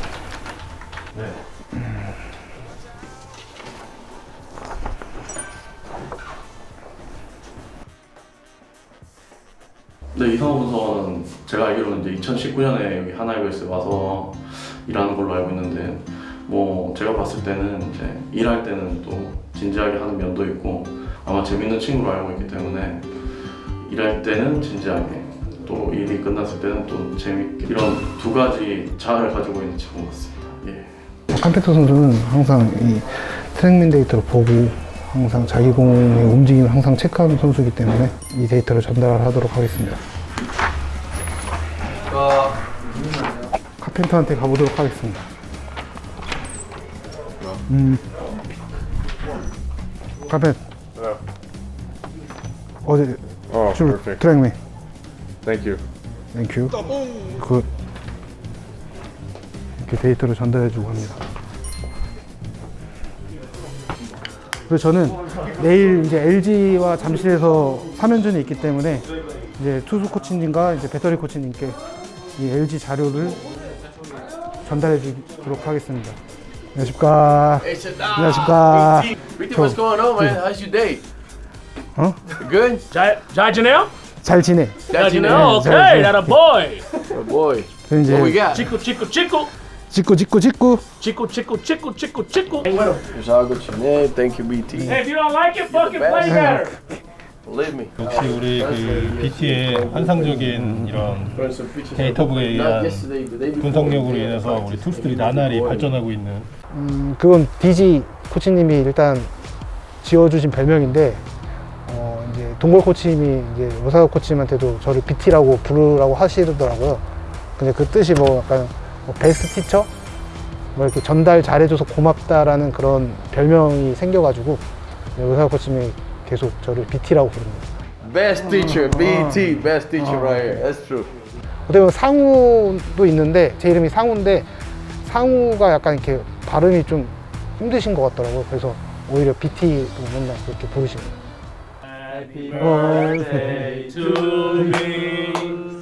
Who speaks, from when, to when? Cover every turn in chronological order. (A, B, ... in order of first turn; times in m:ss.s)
0:10.1-0:30.9 A
0:31.3-0:40.0 B
0:42.1-0:42.6 C
0:43.8-0:45.3 B
0:47.7-0:48.0 B
0:50.3-0:50.6 B
0:52.8-0:54.6 B
0:55.4-0:55.8 C
0:56.3-0:57.7 B
0:59.8-1:01.2 B
1:04.7-1:11.8 B
1:12.3-1:13.4 B
1:14.6-1:16.2 B
1:16.7-1:19.8 B
1:17.6-1:21.0 C
1:22.0-1:22.3 B
1:22.4-1:22.9 C
1:22.9-1:23.9 D
1:24.2-1:26.4 B
1:24.9-1:25.5 C
1:24.9-1:26.8 D
1:27.0-1:28.7 C
1:27.9-1:28.4 B
1:28.5-1:29.5 D
1:29.9-1:30.8 B
1:31.0-1:32.9 D
1:32.7-1:35.0 C
1:34.7-1:35.0 B
1:34.9-1:36.7 D
1:35.6-1:36.6 C
1:36.3-1:37.0 B
1:37.4-1:46.0 C
1:38.0-1:41.4 E
1:41.9-1:43.1 E
1:43.6-1:46.5 E
1:46.7-1:49.3 B
1:50.0-1:51.2 B
1:51.8-1:57.0 B
1:57.6-1:59.9 B
2:00.7-2:07.8 B
2:08.0-2:11.1 C
2:08.6-2:10.6 B
2:11.7-2:14.5 B
2:15.0-2:21.2 B
2:22.0-2:25.6 D
2:22.5-2:23.8 B
2:24.5-2:24.8 B